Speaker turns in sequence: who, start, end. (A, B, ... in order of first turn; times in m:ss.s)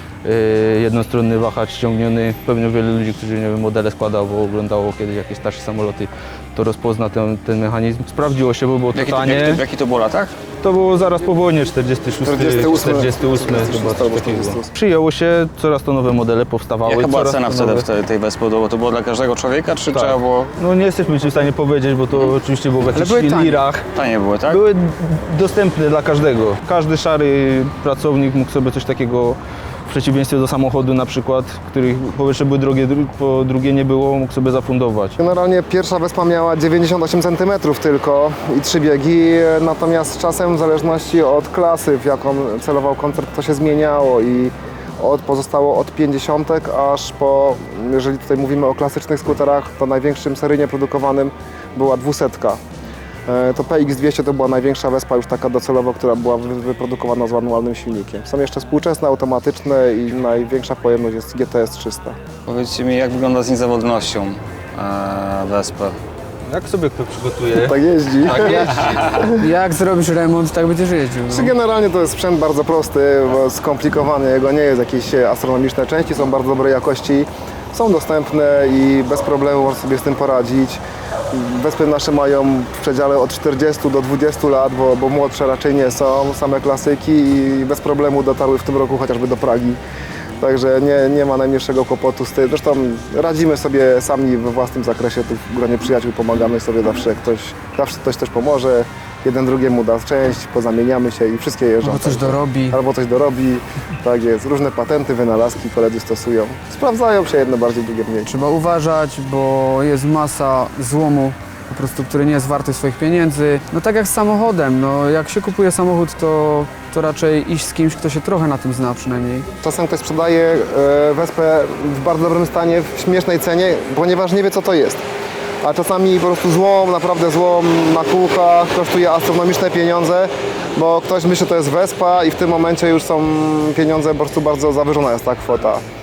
0:00.2-0:09.6 A
0:08.9-0:10.3 B
0:10.6-0:17.8 A
0:12.2-0:14.7 C
0:16.8-0:20.5 B
0:19.9-0:23.9 A
0:22.9-0:23.6 D
0:23.9-0:24.6 B
0:24.5-0:35.2 A
0:35.2-0:52.6 C
0:53.3-1:02.2 C
1:02.4-1:06.0 B
1:06.5-1:09.3 A
1:07.6-1:09.3 C
1:09.4-1:11.5 D
1:11.3-1:20.8 C
1:21.3-1:29.8 C
1:30.4-1:48.3 C
1:41.8-1:42.8 D
1:48.3-1:59.5 D
1:59.6-2:05.0 C
2:05.6-2:15.8 C